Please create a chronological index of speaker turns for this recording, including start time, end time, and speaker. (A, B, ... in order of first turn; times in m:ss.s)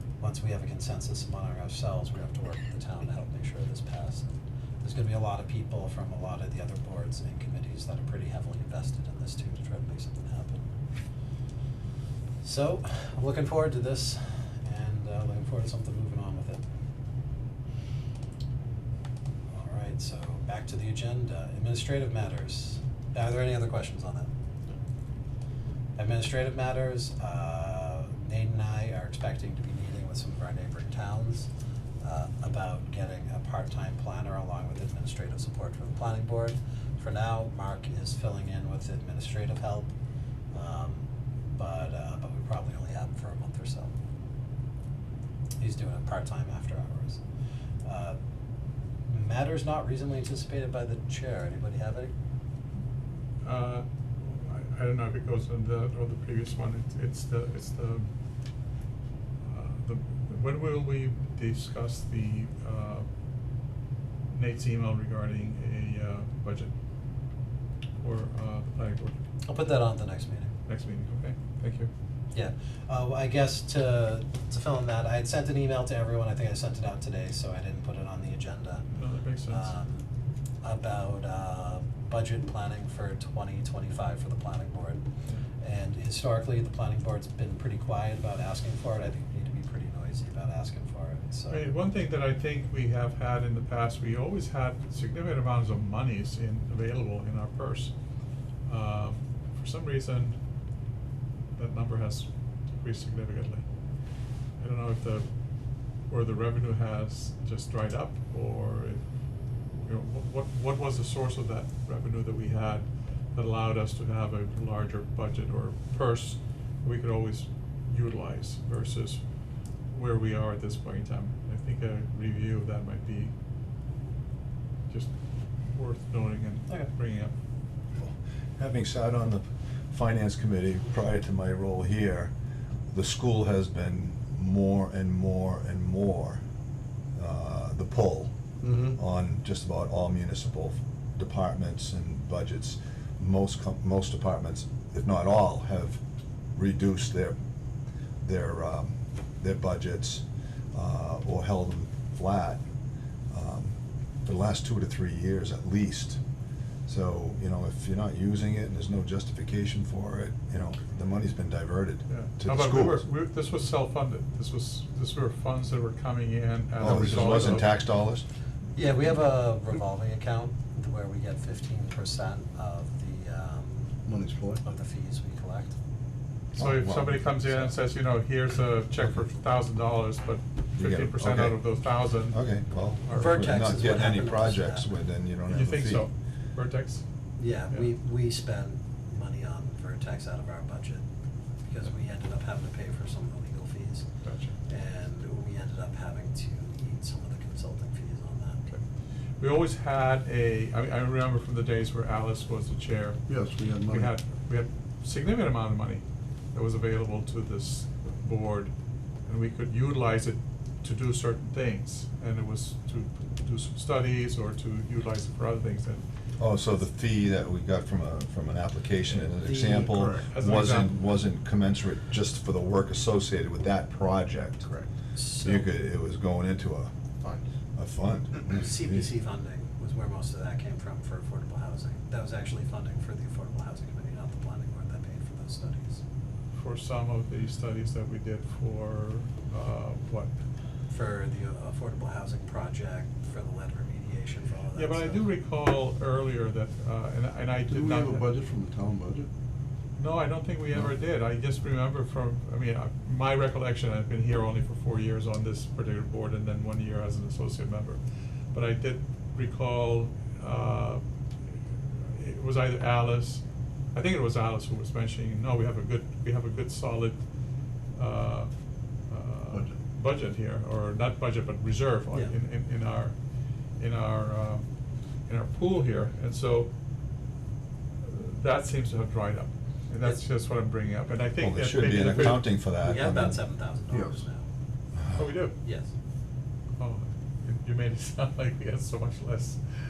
0:00.2-0:04.3 A
0:04.8-0:10.7 A
0:12.4-0:16.6 A
0:19.5-0:24.3 A
0:26.0-0:31.5 A
0:32.0-0:39.9 A
0:40.5-0:43.9 A
0:45.6-0:47.2 A
0:47.8-0:48.2 A
0:49.1-0:52.1 A
0:53.4-0:58.1 B
0:59.4-1:03.1 B
1:04.3-1:06.7 B
1:08.0-1:09.2 B
1:09.4-1:10.6 A
1:10.7-1:11.9 B
1:12.3-1:18.9 A
1:18.9-1:19.7 B
1:19.5-1:20.1 A
1:20.6-1:25.1 A
1:25.6-1:31.6 A
1:31.5-1:37.9 B
1:38.6-1:40.4 B
1:41.6-1:43.7 B
1:44.6-1:45.3 B
1:46.1-1:49.0 B
1:49.7-1:59.2 B
1:59.9-2:03.3 B
2:04.9-2:07.3 B
2:08.0-2:12.3 C
2:12.9-2:16.4 C
2:17.2-2:18.3 C
2:18.6-2:19.0 D
2:18.9-2:26.0 C
2:26.5-2:27.4 C
2:28.2-2:32.6 C
2:33.3-2:36.2 C
2:36.9-2:43.0 C
2:42.1-2:47.8 B
2:46.8-2:48.2 C
2:46.9-2:47.2 D
2:48.8-2:54.0 A
2:54.1-2:54.6 D
2:54.6-2:55.7 A
2:56.6-2:57.2 C
2:56.6-3:03.6 B
2:57.5-2:57.7 A
3:00.8-3:01.6 C
3:02.3-3:06.1 C
3:03.1-3:04.9 A
3:05.5-3:07.0 B
3:07.4-3:11.0 A
3:11.6-3:14.1 A
3:14.2-3:14.6 B
3:14.7-3:18.6 A
3:19.4-3:23.2 B
3:23.3-3:24.1 D
3:23.9-3:26.0 B
3:26.5-3:28.7 B
3:29.2-3:36.0 B
3:36.4-3:44.7 C
3:39.4-3:39.9 A
3:39.8-3:40.3 D
3:40.3-3:41.0 B
3:44.6-3:44.9 D
3:45.2-3:45.7 A
3:45.4-3:46.9 C
3:47.8-3:49.1 C
3:48.5-3:56.0 A
3:56.6-4:00.3 B
4:00.9-4:05.2 A
4:04.8-4:08.3 B
4:07.7-4:09.3 D
4:10.0-4:18.0 B
4:18.5-4:27.2 B
4:27.9-4:28.5 B
4:29.1-4:33.2 B
4:29.5-4:29.8 D
4:33.8-4:34.7 B
4:35.3-4:36.7 B
4:38.0-4:42.5 B
4:41.4-4:43.4 C
4:42.8-4:44.5 A
4:43.9-4:44.2 D
4:45.0-4:45.2 C
4:45.2-4:45.6 B
4:45.6-4:45.9 A
4:46.8-4:49.6 B